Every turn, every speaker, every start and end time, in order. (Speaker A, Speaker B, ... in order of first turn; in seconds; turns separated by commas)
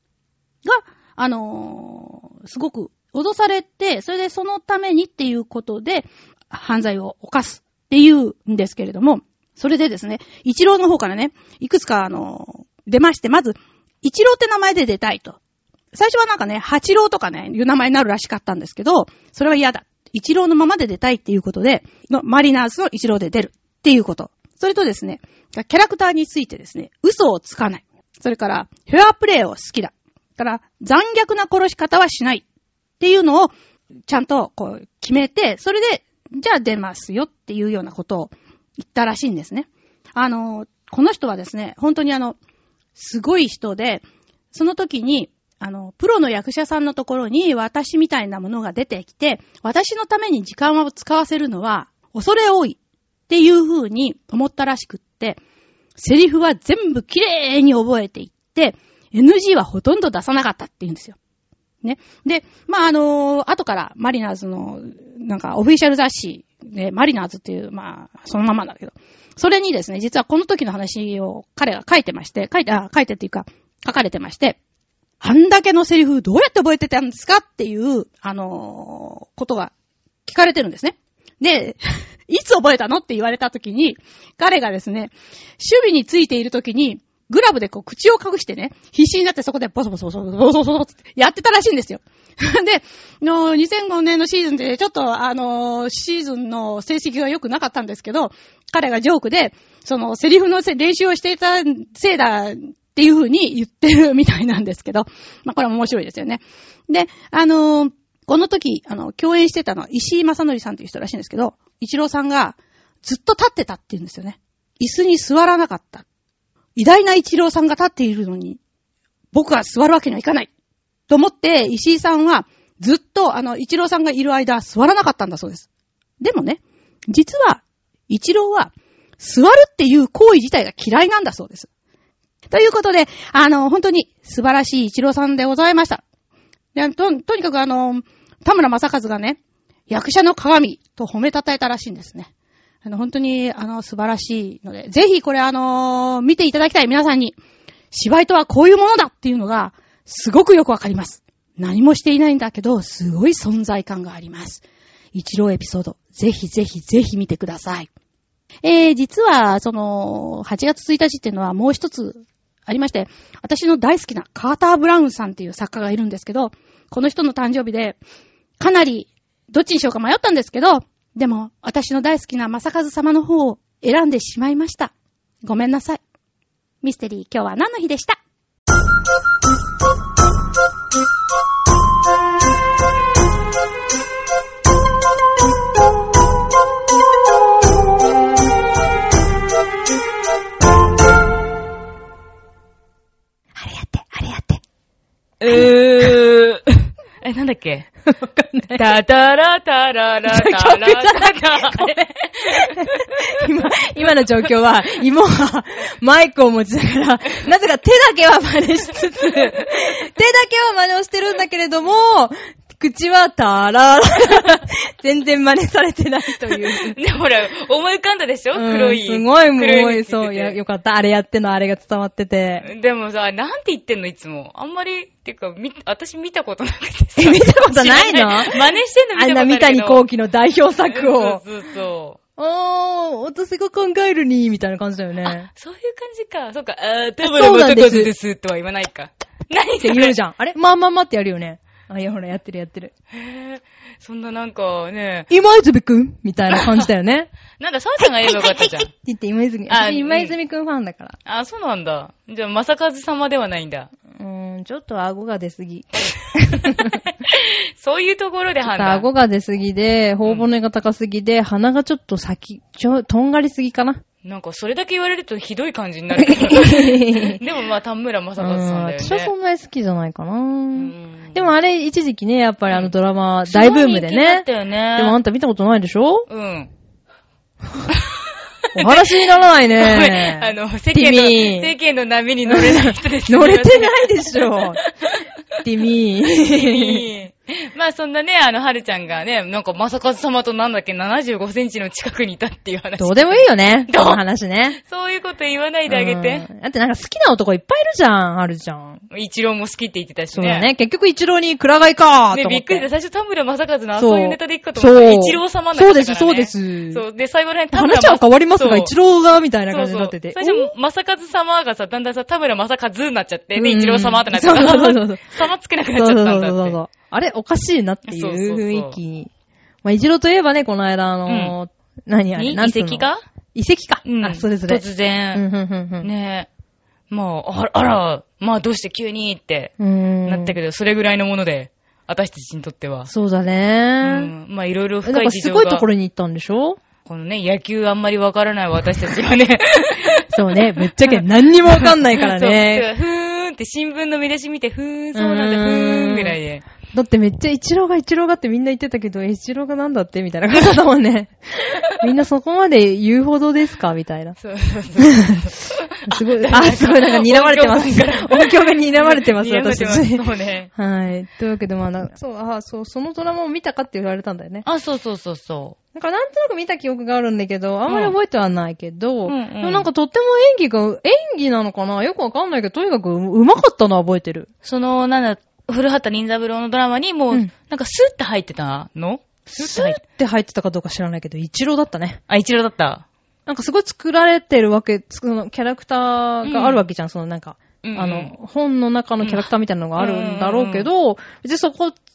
Speaker A: 0.6-15.4, Speaker A: 15.9-32.4, Speaker A: 33.0-33.5, Speaker A: 34.1-42.4, Speaker A: 43.0-52.8, Speaker A: 53.3-55.4, Speaker A: 56.0-61.1, Speaker A: 61.8-74.6, Speaker A: 75.2-79.7, Speaker A: 80.2-116.0, Speaker A: 116.8-118.6, Speaker A: 119.3-120.5, Speaker A: 121.1-125.7, Speaker A: 126.2-131.7, Speaker A: 132.5-136.0, Speaker A: 136.7-139.4, Speaker A: 139.9-142.3, Speaker A: 142.8-147.4, Speaker A: 147.9-154.6, Speaker A: 155.1-157.9, Speaker A: 158.6-168.0, Speaker A: 168.6-174.9, Speaker A: 175.4-176.0, Speaker A: 176.8-178.2, Speaker B: 193.6-194.6, Speaker C: 195.4-197.9, Speaker B: 195.5-196.2, Speaker B: 198.0-198.9, Speaker C: 198.7-203.1, Speaker B: 200.3-202.0, Speaker B: 202.5-217.0, Speaker C: 216.6-220.6, Speaker B: 218.5-222.7, Speaker C: 222.6-230.0, Speaker B: 227.2-228.6, Speaker B: 229.1-231.4, Speaker C: 230.9-232.2, Speaker B: 232.4-235.5, Speaker C: 235.2-240.2, Speaker B: 237.2-238.1, Speaker B: 239.8-242.9, Speaker C: 243.1-245.3, Speaker B: 245.3-247.3, Speaker C: 247.6-248.9, Speaker B: 248.2-251.2, Speaker C: 249.7-250.3, Speaker C: 251.2-253.9, Speaker B: 254.1-257.0, Speaker C: 256.4-259.1, Speaker B: 258.6-264.0, Speaker C: 264.2-269.3, Speaker B: 266.2-267.4, Speaker B: 268.4-276.3, Speaker C: 270.8-271.5, Speaker C: 273.5-275.2, Speaker C: 276.3-276.7, Speaker C: 278.7-279.0, Speaker B: 278.7-281.7, Speaker C: 279.8-284.3, Speaker B: 282.4-284.8, Speaker B: 285.6-287.1, Speaker C: 286.4-294.2, Speaker B: 293.0-294.8, Speaker C: 294.8-296.5, Speaker B: 295.9-299.0, Speaker C: 299.1-300.7, Speaker B: 300.3-302.9, Speaker C: 302.3-308.9, Speaker B: 304.0-307.0, Speaker B: 307.7-310.7, Speaker C: 309.7-316.8, Speaker B: 313.5-315.3, Speaker B: 315.9-319.3, Speaker C: 318.1-319.0, Speaker B: 319.8-324.8, Speaker C: 321.3-321.5, Speaker C: 322.4-323.2, Speaker C: 324.0-325.4, Speaker B: 325.3-326.1, Speaker C: 326.0-326.5, Speaker C: 327.1-329.7, Speaker B: 329.8-330.6, Speaker C: 330.2-333.1, Speaker B: 333.1-334.3, Speaker C: 334.0-335.8, Speaker B: 335.0-336.8, Speaker C: 337.0-340.3, Speaker B: 340.3-342.9, Speaker C: 341.0-346.6, Speaker B: 345.1-346.4, Speaker B: 346.9-354.4, Speaker C: 354.4-360.7, Speaker B: 355.0-355.5, Speaker B: 356.1-364.6, Speaker C: 364.6-365.8, Speaker B: 365.9-374.5, Speaker C: 367.9-368.1, Speaker C: 369.2-369.9, Speaker C: 374.6-380.0, Speaker B: 379.5-382.2, Speaker C: 382.3-383.0, Speaker B: 383.5-392.0, Speaker C: 386.4-386.8, Speaker C: 387.8-388.3, Speaker C: 389.2-390.9